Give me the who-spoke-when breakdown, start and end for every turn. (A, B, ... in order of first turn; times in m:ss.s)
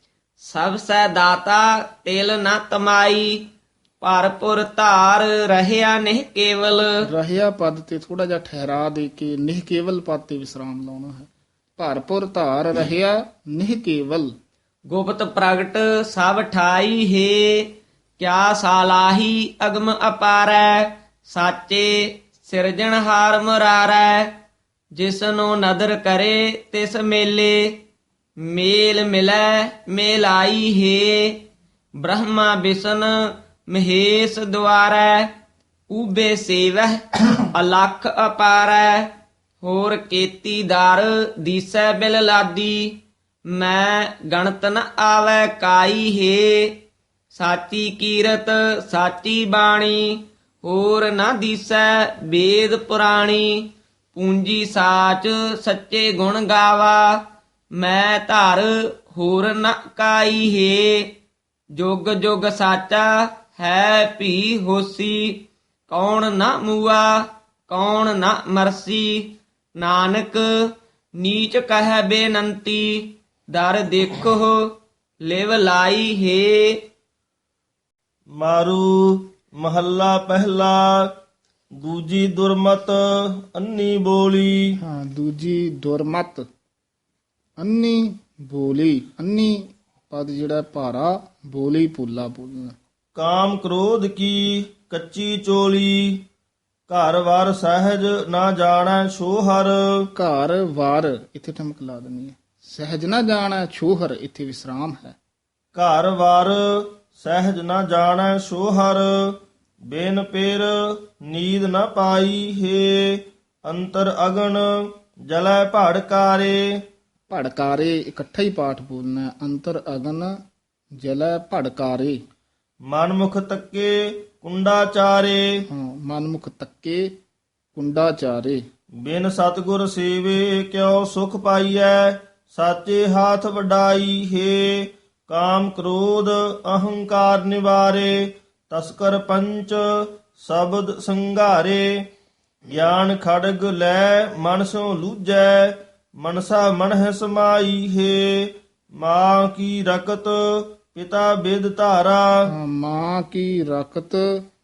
0:00.4-0:07.0 A
0:07.0-0:14.3 B
0:14.9-0:24.3 A
0:24.9-0:27.8 A
0:28.4-0:31.4 A
0:32.0-0:35.3 A
0:35.9-0:39.1 A
0:39.6-0:43.0 A
0:43.5-0:46.8 A
0:47.3-0:57.2 A
0:57.8-1:01.1 A
1:01.8-1:14.7 A
1:15.2-1:16.8 A
1:18.4-1:21.1 C
1:21.8-1:24.8 C
1:24.8-1:26.4 B
1:27.6-1:32.8 B
1:33.2-1:36.2 C
1:36.9-1:40.0 C
1:40.1-1:45.2 B
1:45.7-1:54.7 C
1:55.3-1:56.7 C
1:57.3-2:00.3 B
2:01.0-2:02.2 B
2:02.9-2:05.4 C
2:05.7-2:07.1 B
2:07.7-2:08.6 B
2:09.0-2:21.9 C
2:22.7-2:32.3 C
2:32.4-2:34.4 B